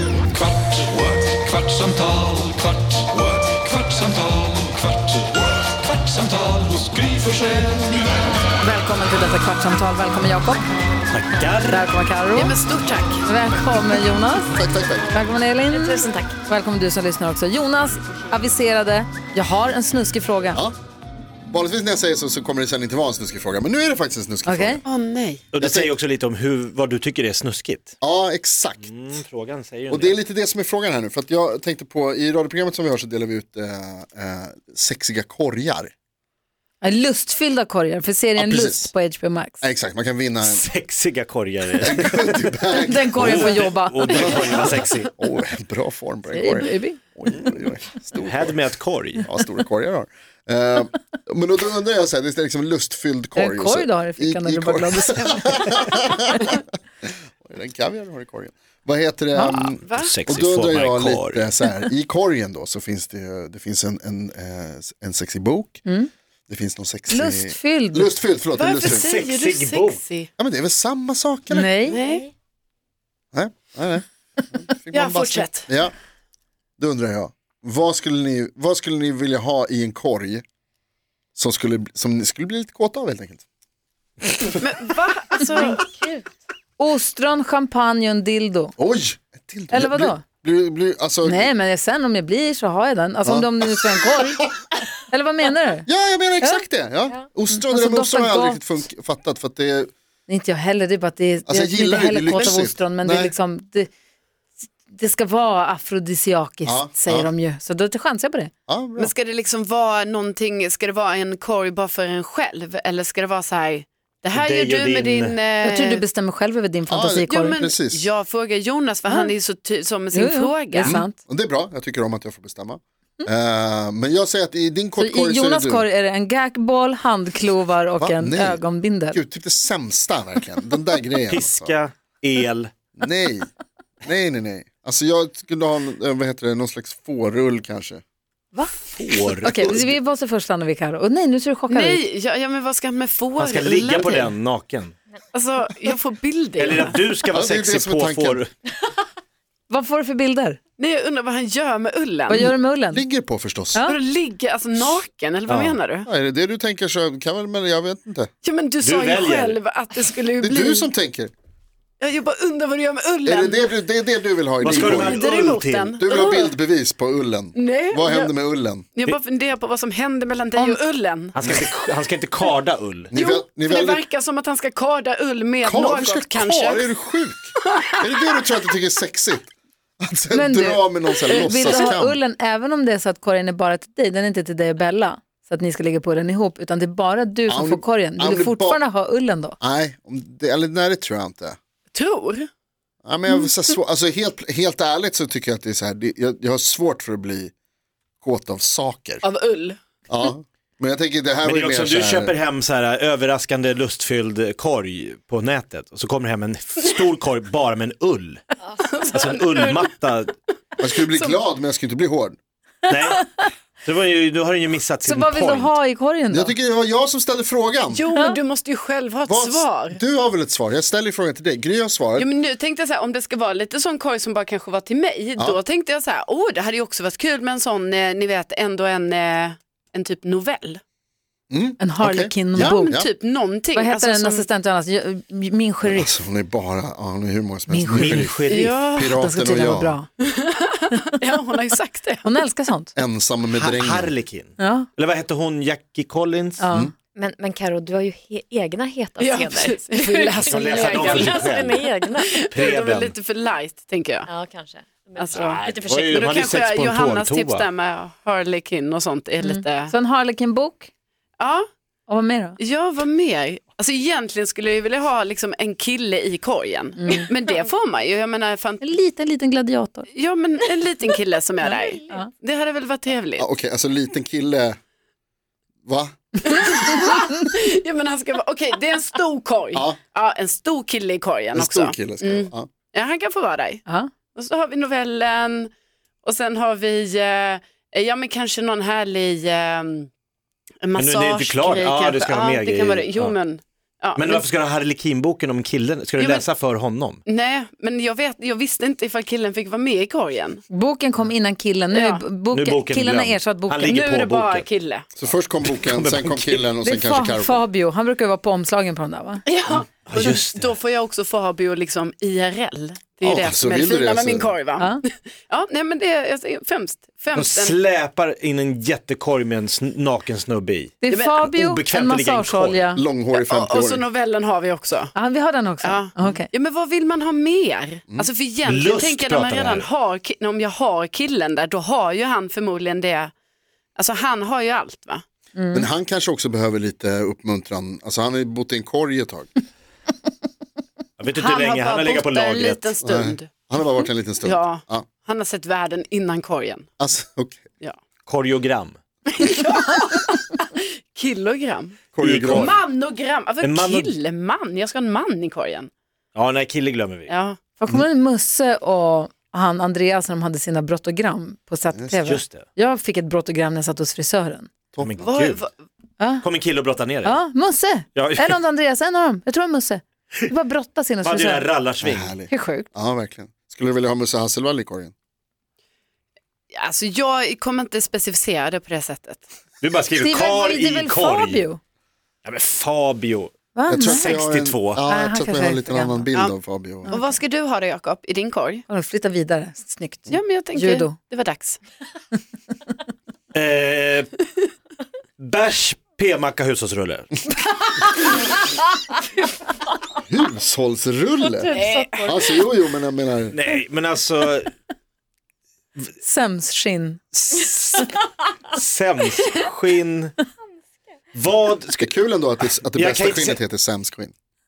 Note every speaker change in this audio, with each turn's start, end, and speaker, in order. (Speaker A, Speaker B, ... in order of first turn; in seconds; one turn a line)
Speaker A: 0.3-8.0
Speaker B: 8.6-10.6
Speaker C: 11.1-11.8
Speaker B: 11.6-12.6
Speaker D: 12.3-13.2
Speaker B: 13.2-14.6
Speaker E: 14.5-15.1
Speaker B: 15.1-20.6
Speaker F: 15.6-16.4
Speaker E: 21.5-24.8
Speaker B: 24.4-24.8
Speaker D: 24.9-25.4
Speaker C: 25.5-27.9
Speaker E: 25.6-25.9
Speaker E: 28.0-28.9
Speaker C: 28.8-30.2
Speaker E: 29.9-35.9
Speaker B: 36.8-39.6
Speaker E: 38.4-38.9
Speaker E: 39.6-40.6
Speaker C: 40.4-42.5
Speaker E: 41.8-44.6
Speaker B: 42.8-44.6
Speaker C: 43.1-45.1
Speaker E: 45.2-48.6
Speaker B: 46.3-47.0
Speaker C: 48.2-49.3
Speaker E: 49.2-65.8
Speaker B: 53.3-56.1
Speaker B: 59.3-59.7
Speaker D: 59.8-60.2
Speaker C: 60.0-61.5
Speaker B: 65.8-66.1
Speaker E: 66.5-69.0
Speaker B: 67.1-68.2
Speaker D: 68.6-70.3
Speaker C: 68.8-70.0
Speaker E: 70.4-71.9
Speaker B: 71.5-72.0
Speaker D: 71.9-72.3
Speaker E: 73.3-75.9
Speaker D: 74.9-75.7
Speaker E: 76.8-80.4
Speaker E: 81.3-83.4
Speaker D: 84.4-85.9
Speaker F: 85.6-86.2
Speaker B: 86.8-88.7
Speaker E: 88.8-91.5
Speaker B: 89.7-90.2
Speaker B: 91.2-94.4
Speaker E: 93.2-94.0
Speaker B: 95.1-95.9
Speaker E: 95.8-99.9
Speaker B: 97.5-98.7
Speaker B: 100.3-103.9
Speaker E: 101.5-103.3
Speaker B: 104.9-108.5
Speaker E: 106.6-107.3
Speaker E: 108.7-109.1
Speaker D: 109.0-116.0
Speaker C: 114.3-115.4
Speaker B: 115.6-117.6
Speaker E: 116.9-118.0
Speaker D: 117.3-121.0
Speaker B: 120.1-121.2
Speaker E: 120.8-125.9
Speaker B: 125.0-129.2
Speaker E: 128.0-131.8
Speaker C: 131.3-132.7
Speaker E: 133.0-133.5
Speaker E: 134.0-138.0
Speaker C: 138.9-139.8
Speaker E: 139.4-139.9
Speaker B: 139.4-142.0
Speaker D: 141.7-144.3
Speaker C: 143.4-144.9
Speaker D: 145.3-146.9
Speaker C: 146.6-148.5
Speaker E: 147.3-148.4
Speaker B: 149.7-150.6
Speaker D: 150.8-152.5
Speaker B: 152.3-153.0
Speaker E: 152.3-153.8
Speaker D: 153.8-156.1
Speaker C: 155.4-155.8
Speaker E: 156.1-158.3
Speaker D: 158.4-160.9
Speaker C: 158.8-159.6
Speaker E: 160.4-161.3
Speaker D: 162.0-163.7
Speaker E: 163.2-165.2
Speaker C: 164.6-166.0
Speaker D: 164.6-166.5
Speaker E: 166.0-168.8
Speaker D: 167.5-168.3
Speaker D: 168.9-171.3
Speaker C: 171.3-173.1
Speaker E: 171.4-171.6
Speaker E: 173.1-174.0
Speaker D: 173.1-176.9
Speaker E: 175.6-182.2
Speaker D: 177.6-178.0
Speaker B: 180.3-189.6
Speaker E: 187.5-188.8
Speaker E: 189.6-191.6
Speaker D: 191.9-192.5
Speaker E: 193.0-197.5
Speaker E: 198.2-199.2
Speaker D: 199.2-199.8
Speaker E: 200.1-202.3
Speaker C: 201.4-208.5
Speaker D: 208.8-209.9
Speaker C: 209.1-210.3
Speaker E: 210.8-212.4
Speaker D: 211.0-211.3
Speaker C: 212.9-213.3
Speaker C: 213.8-215.7
Speaker B: 215.0-216.5
Speaker E: 216.3-218.0
Speaker D: 217.9-220.0
Speaker E: 219.3-222.3
Speaker D: 222.2-230.8
Speaker E: 231.5-233.1
Speaker B: 231.8-233.0
Speaker D: 232.6-234.4
Speaker B: 233.7-236.2
Speaker E: 235.8-239.9
Speaker B: 237.7-238.4
Speaker C: 237.9-238.8
Speaker D: 238.5-239.1
Speaker B: 239.0-240.1
Speaker D: 240.3-242.2
Speaker B: 242.2-242.9
Speaker E: 242.9-244.1
Speaker C: 243.5-246.6
Speaker B: 244.6-244.9
Speaker B: 246.6-246.9
Speaker F: 247.1-252.4
Speaker D: 249.2-254.3
Speaker C: 250.4-251.8
Speaker C: 252.5-253.1
Speaker F: 254.3-256.2
Speaker D: 255.2-259.9
Speaker C: 255.4-257.7
Speaker B: 259.4-260.9
Speaker D: 261.4-261.6
Speaker B: 262.1-262.6
Speaker D: 262.6-268.8
Speaker B: 267.0-267.3
Speaker B: 268.8-270.1
Speaker D: 270.1-273.4
Speaker B: 271.6-272.3
Speaker E: 273.4-274.8
Speaker E: 275.8-276.2
Speaker D: 276.5-283.8
Speaker E: 279.7-280.0
Speaker E: 281.5-282.7
Speaker D: 284.3-285.7
Speaker D: 286.2-290.1
Speaker D: 290.8-294.4
Speaker C: 291.0-293.4
Speaker C: 294.1-297.2
Speaker D: 296.2-296.4
Speaker D: 297.2-300.6
Speaker B: 300.7-304.1
Speaker D: 301.9-302.2
Speaker C: 302.5-304.6
Speaker D: 303.9-305.1
Speaker E: 305.1-307.6
Speaker C: 305.2-306.7
Speaker B: 306.8-309.4
Speaker D: 309.4-317.8
Speaker C: 310.1-310.8
Speaker E: 313.2-314.5
Speaker C: 317.3-322.9
Speaker B: 321.0-323.0
Speaker D: 321.1-321.4
Speaker E: 322.9-324.0
Speaker D: 323.3-325.1
Speaker B: 325.1-326.5
Speaker D: 325.8-333.3
Speaker C: 328.6-329.9
Speaker D: 333.9-335.2
Speaker B: 335.5-335.9
Speaker E: 335.7-339.5
Speaker C: 341.2-342.9
Speaker D: 341.4-343.5
Speaker E: 343.0-345.1
Speaker D: 344.4-346.9
Speaker E: 347.0-347.7
Speaker C: 348.2-349.0
Speaker D: 349.3-355.9
Speaker E: 352.1-352.8
Speaker C: 352.2-352.8
Speaker C: 353.6-354.1
Speaker C: 356.3-357.3
Speaker D: 357.3-357.6
Speaker B: 357.8-364.7
Speaker E: 361.9-362.2
Speaker C: 362.2-362.6
Speaker E: 364.9-365.2
Speaker C: 365.0-365.6
Speaker D: 365.2-365.7
Speaker B: 366.2-366.4
Speaker C: 366.4-367.4
Speaker B: 367.2-371.7
Speaker C: 368.1-368.6
Speaker C: 371.2-372.3
Speaker E: 372.0-375.1
Speaker B: 372.5-372.9
Speaker D: 376.7-379.4
Speaker C: 379.8-381.6
Speaker B: 380.1-381.8
Speaker C: 382.4-385.0
Speaker B: 383.7-384.4
Speaker E: 383.9-387.1
Speaker B: 385.1-386.3
Speaker B: 387.0-387.3
Speaker D: 387.1-388.8
Speaker B: 388.9-391.1
Speaker D: 390.3-391.8
Speaker C: 393.5-394.4
Speaker C: 395.4-397.4
Speaker E: 400.3-403.6
Speaker F: 401.6-402.5
Speaker D: 401.6-402.4
Speaker C: 403.5-404.7
Speaker B: 406.2-407.2
Speaker C: 407.4-408.1
Speaker C: 408.7-410.3
Speaker C: 411.3-412.1
Speaker E: 412.0-414.3
Speaker C: 412.8-413.6